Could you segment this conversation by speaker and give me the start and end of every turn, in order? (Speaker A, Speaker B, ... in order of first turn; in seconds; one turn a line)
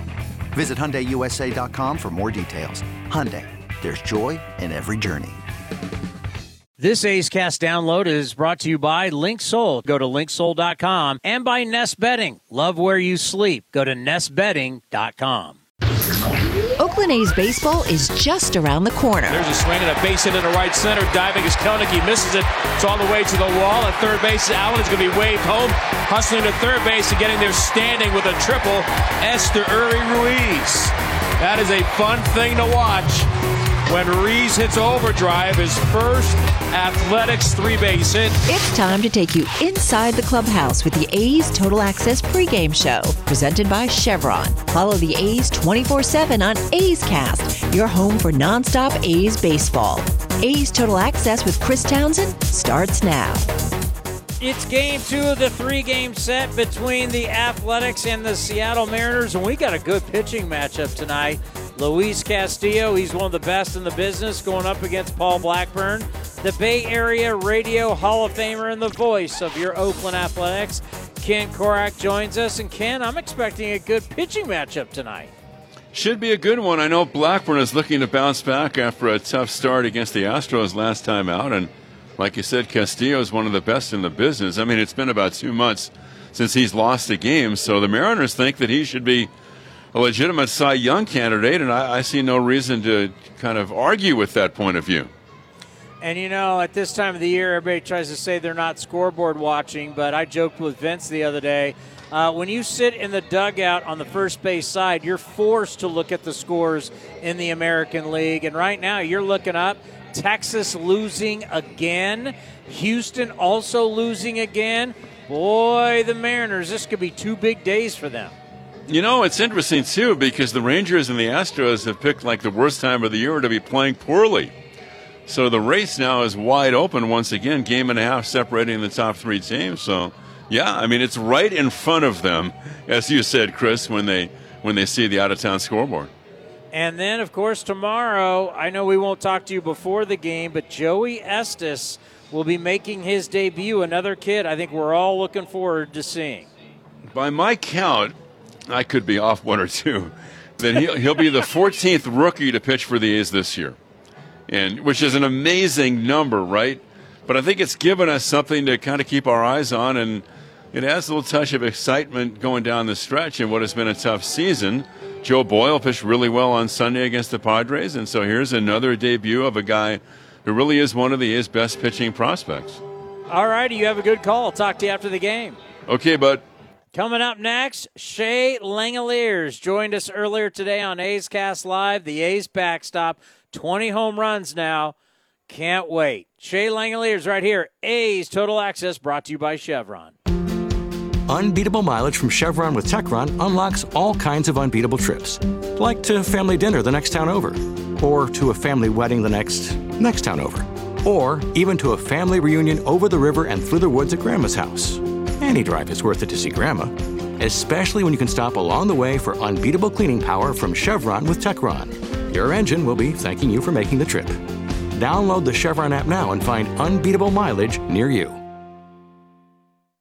Speaker A: 0.5-5.4
Speaker B: 6.8-15.6
Speaker C: 16.8-19.4
Speaker D: 19.3-33.3
Speaker D: 33.9-38.4
Speaker C: 38.5-53.4
Speaker B: 54.4-75.3
Speaker E: 75.9-89.3
Speaker E: 89.9-95.1
Speaker B: 96.0-118.3
Speaker E: 118.9-124.5
Speaker E: 125.2-136.1
Speaker B: 136.7-146.5
Speaker E: 147.1-148.1
Speaker E: 148.7-153.8
Speaker E: 154.5-172.8
Speaker B: 173.3-175.6
Speaker E: 175.9-176.4
Speaker B: 176.9-184.9
Speaker B: 185.5-190.1
Speaker F: 191.3-214.4
Speaker F: 214.9-218.4